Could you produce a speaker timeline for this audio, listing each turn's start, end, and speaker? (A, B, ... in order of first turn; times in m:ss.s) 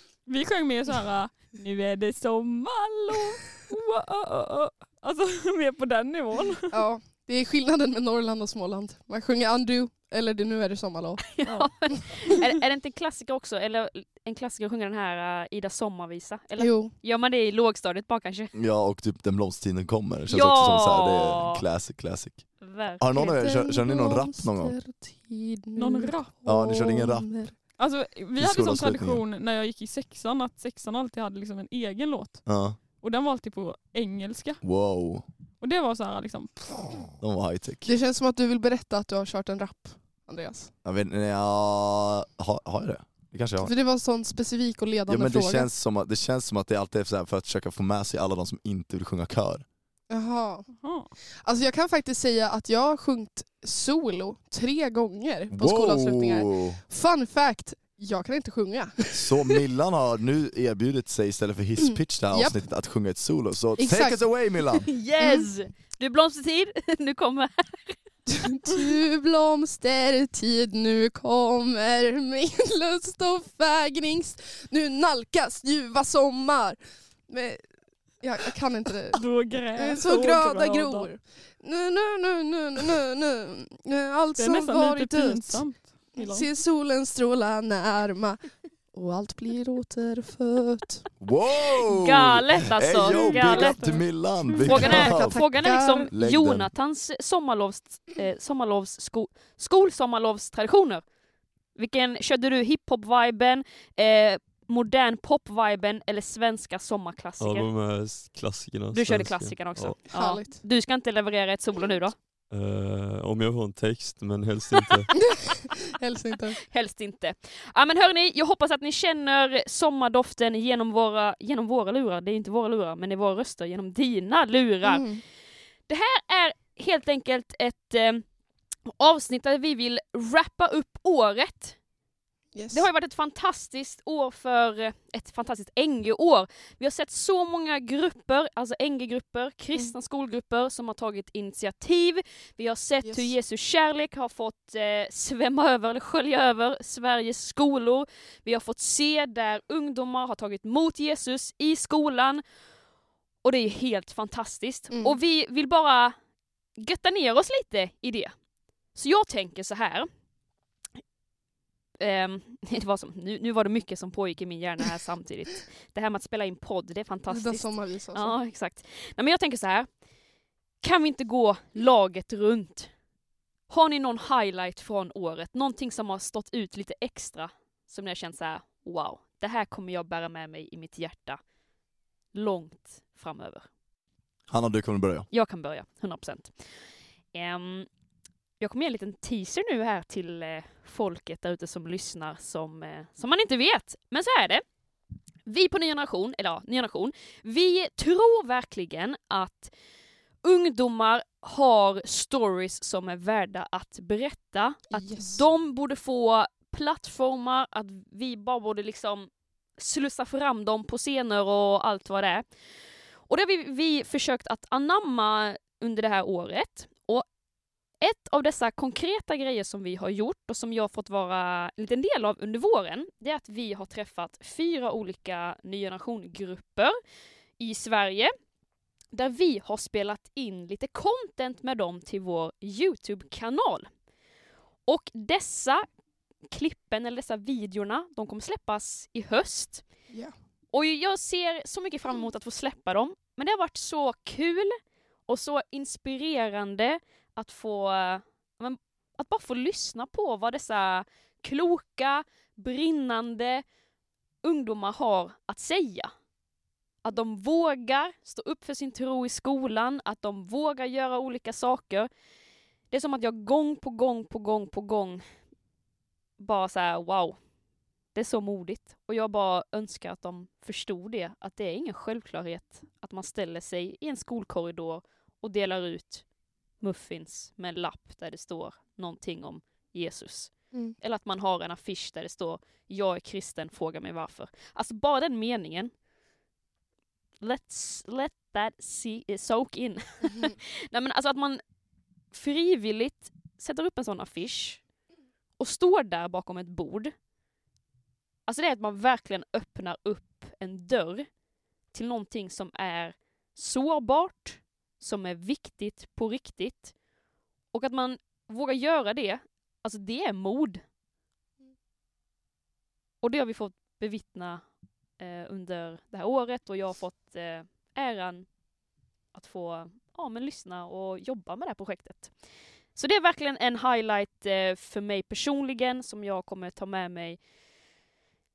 0:00.2-0:06.8 A
0:06.7-0:11.4 B
0:11.4-0:18.5 C
0:11.4-0:11.7 A
0:16.6-0:16.9 B
0:18.5-0:24.8 D
0:20.3-0:21.6 C
0:22.6-0:23.1 C
0:23.1-0:27.6 B
0:25.8-0:26.4 A
0:26.4-0:27.4 D
0:27.8-0:34.6 A
0:28.4-0:29.2 D
0:32.4-0:32.8 D
0:34.6-0:35.3 D
0:35.6-0:37.1 A
0:37.1-0:37.9 D
0:37.8-0:40.7 B
0:40.8-0:43.7 D
0:43.6-0:45.7 B
0:45.1-0:49.6 D
0:50.1-0:50.7 B
0:50.7-0:51.1 A
0:51.4-0:59.2 B
0:55.5-0:56.8 D
0:59.1-1:04.9 D
1:01.8-1:02.6 B
1:03.8-1:04.4 B
1:04.9-1:08.0 C
1:05.2-1:05.5 B
1:08.4-1:17.6 B
1:18.2-1:31.1 B
1:19.1-1:21.1 A
1:24.4-1:26.5 A
1:31.2-1:36.7 D
1:31.8-1:34.0 C
1:33.1-1:33.9 A
1:34.6-1:41.0 C
1:34.6-1:36.1 B
1:41.7-1:47.7 C
1:47.4-1:50.0 E
1:48.9-1:52.2 C
1:50.1-1:50.6 B
1:52.5-1:55.1 E
1:55.3-1:56.6 B
1:56.7-2:05.2 C
2:04.8-2:05.2 B
2:05.9-2:08.3 C
2:08.9-2:11.8 C
2:12.5-2:12.8 B
2:12.7-2:32.4 C
2:23.0-2:23.3 B
2:33.4-2:36.2 C
2:34.9-2:35.2 B
2:36.8-2:38.4 C
2:38.9-2:40.1 C
2:42.0-2:50.0 C
2:47.3-2:48.4 B
2:50.8-2:52.9 C
2:53.7-3:01.4 C
3:02.3-3:03.7 C
3:04.5-3:05.3 D
3:05.3-3:07.9 C
3:08.6-3:14.6 C
3:15.4-3:19.7 C
3:20.4-3:32.5 C
3:24.9-3:25.4 B
3:33.2-3:37.2 C
3:38.0-3:46.9 C
3:47.6-3:48.3 C
3:49.1-3:53.9 C
3:54.8-3:55.8 C
3:56.4-3:59.8 C
4:00.7-4:13.6 C
4:14.4-4:16.1 C
4:17.0-4:22.1 C
4:22.9-4:25.2 C
4:26.4-4:27.4 C
4:28.1-4:36.2 C
4:36.8-4:45.9 C
4:47.4-4:51.6 C
4:52.3-4:54.8 C
4:55.6-4:57.1 C
4:58.4-5:01.4 C
5:01.9-5:07.0 C
5:07.7-5:10.8 C
5:13.2-5:18.5 C
5:19.3-5:22.4 C
5:22.9-5:27.4 C